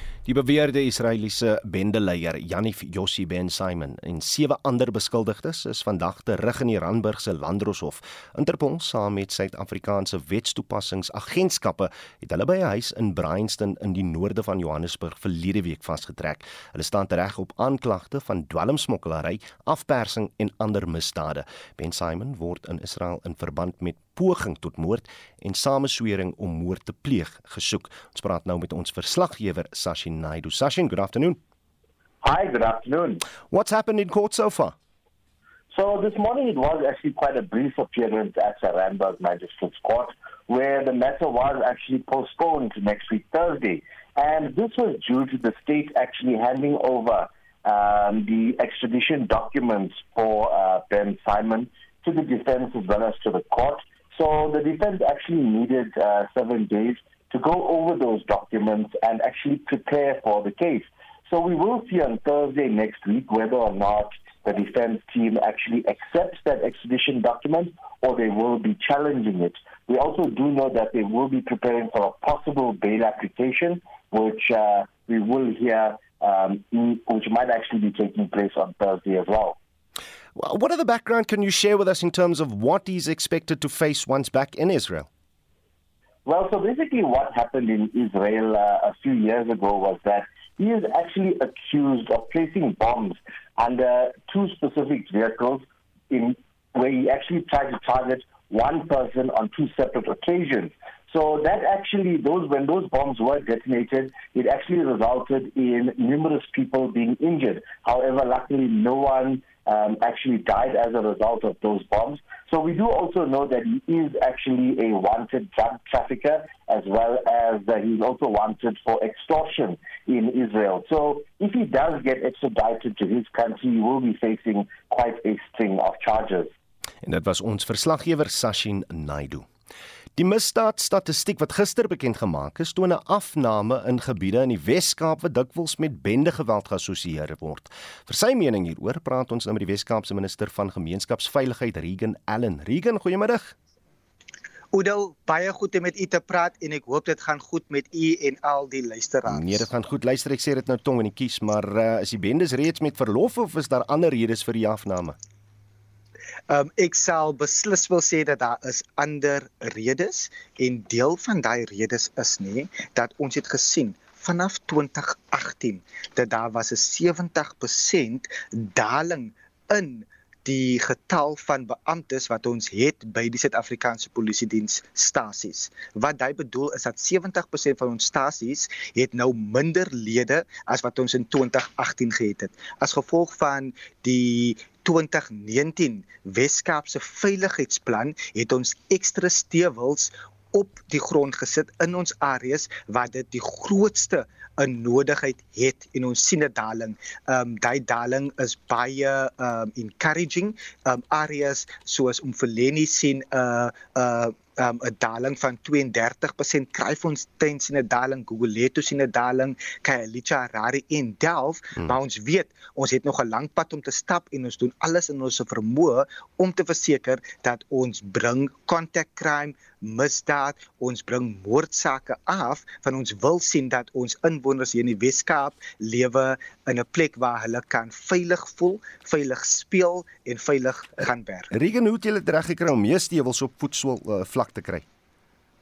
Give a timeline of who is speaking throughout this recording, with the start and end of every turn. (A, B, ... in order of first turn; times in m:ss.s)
0:00.2-0:31.4 A
0:32.2-0:33.2 B
0:33.5-0:34.8 A
0:35.7-1:19.6 B
1:20.4-1:25.1 A
1:26.3-2:06.5 B
2:07.0-2:09.5 A
2:10.2-2:23.6 A
2:24.7-2:29.6 C
2:29.3-2:35.2 A
2:36.5-3:51.5 C
3:51.5-3:54.8 A